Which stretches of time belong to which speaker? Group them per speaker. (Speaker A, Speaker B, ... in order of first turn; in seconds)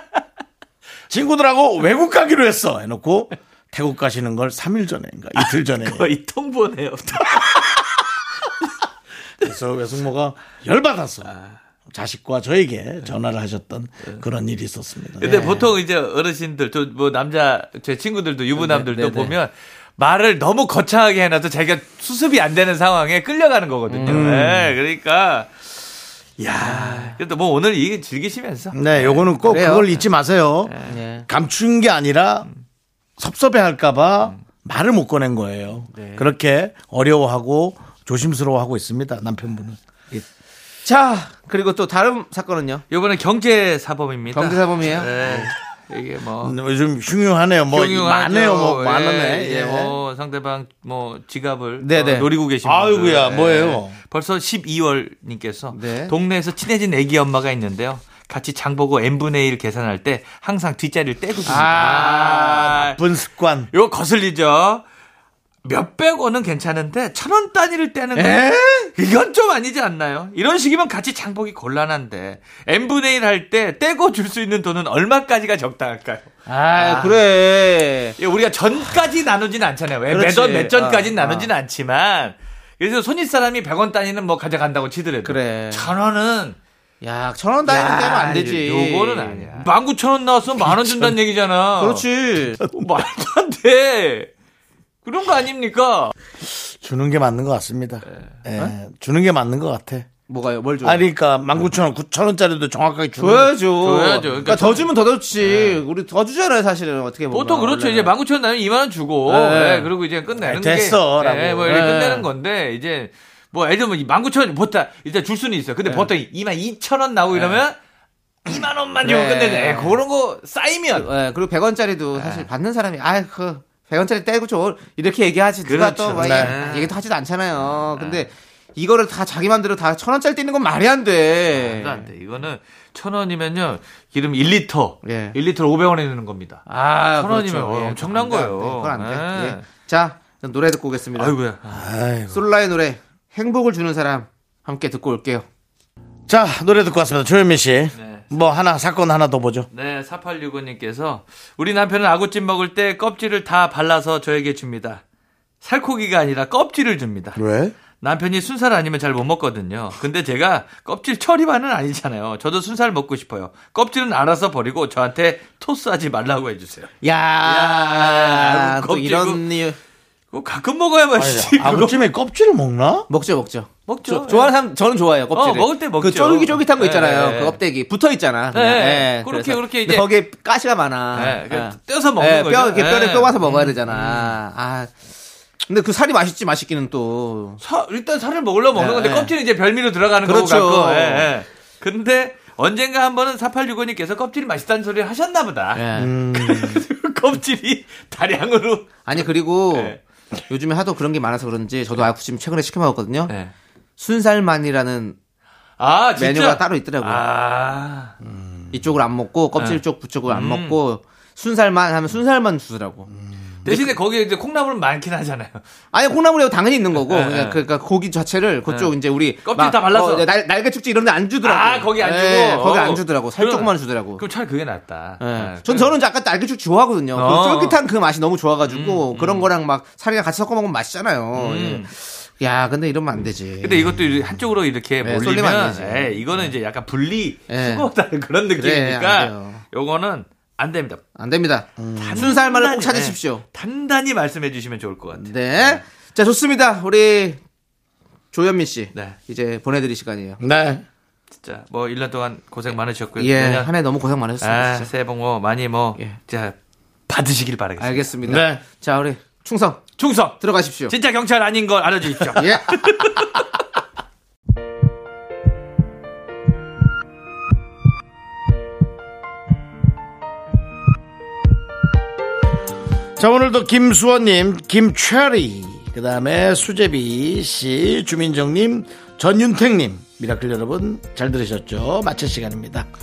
Speaker A: 1.1-6.1, 9.4-11.3, 11.9-15.3, 24.1-24.7, 28.7-30.7, 31.3-32.5, 33.2-40.2, 46.4-49.9, 52.6-54.0, 62.7-63.7, 90.6-91.2, 96.4-100.1, 100.8-103.5, 110.4-111.9, 126.1-126.5, 141.7-142.4, 146.3-149.7, 157.3-157.7, 171.2-173.1, 196.0-196.8, 208.2-208.7, 241.8-242.2, 250.4-250.8, 258.2-258.6, 273.2-282.9
Speaker B: 5.4-7.8, 11.3-11.5, 15.2-25.7, 26.4-29.4, 30.7-31.0, 42.9-46.5, 47.7-63.0, 63.7-64.8, 65.6-77.2, 78.2-86.6, 87.7-92.0, 92.6-94.3, 95.0-96.1, 103.8-104.9, 105.4-105.8, 107.3-117.8, 118.4-121.1, 122.2-122.5, 125.6-126.9, 127.9-128.2, 131.5-139.7, 141.2-141.8, 148.0-148.2, 149.7-155.0, 155.6-157.4, 157.9-166.9, 167.4-169.4, 170.3-172.0, 173.9-174.5, 175.3-177.6, 178.5-180.1, 181.1-184.3, 187.6-198.9, 199.7-200.0, 205.8-208.1, 209.6-210.8, 213.6-215.6, 217.0-217.6, 218.7-218.9, 219.4-220.3, 221.4-226.0, 227.1-227.8, 228.7-229.5, 231.3-231.9, 233.6-241.0, 242.0-245.8, 251.4-253.7, 254.4-256.5, 257.1-258.1, 260.0-263.4
Speaker C: 15.2-15.7, 18.5-19.3, 23.9-24.3, 26.6-27.1, 29.5-29.9, 30.9-31.2, 35.9-36.2, 40.8-42.8, 44.3-45.5, 49.5-49.9, 51.8-52.3, 55.7-56.1, 61.4-62.7, 68.1-68.9, 76.5-78.2, 80.1-81.5, 85.2-85.9, 87.0-89.6, 91.8-92.6, 100.3-101.0, 103.2-108.1, 109.2-109.9, 111.6-112.3, 115.8-116.1, 117.3-117.6, 119.0-120.0, 120.9-132.1, 135.0-135.4, 136.7-141.3, 142.3-145.4, 167.0-169.8, 173.1-184.9, 185.7-187.6, 188.7-189.3, 190.2-191.3, 195.7-196.1, 199.0-200.0, 200.5-203.3, 204.0-205.2, 206.2-207.2, 208.7-213.1, 213.7-213.9, 215.9-224.2, 225.2-234.0, 235.0-236.5, 237.5-237.9, 238.6-239.6, 241.2-243.4, 245.2-247.4, 248.3-250.4, 253.2-254.9, 257.8-259.9, 260.4-260.9, 262.3-262.8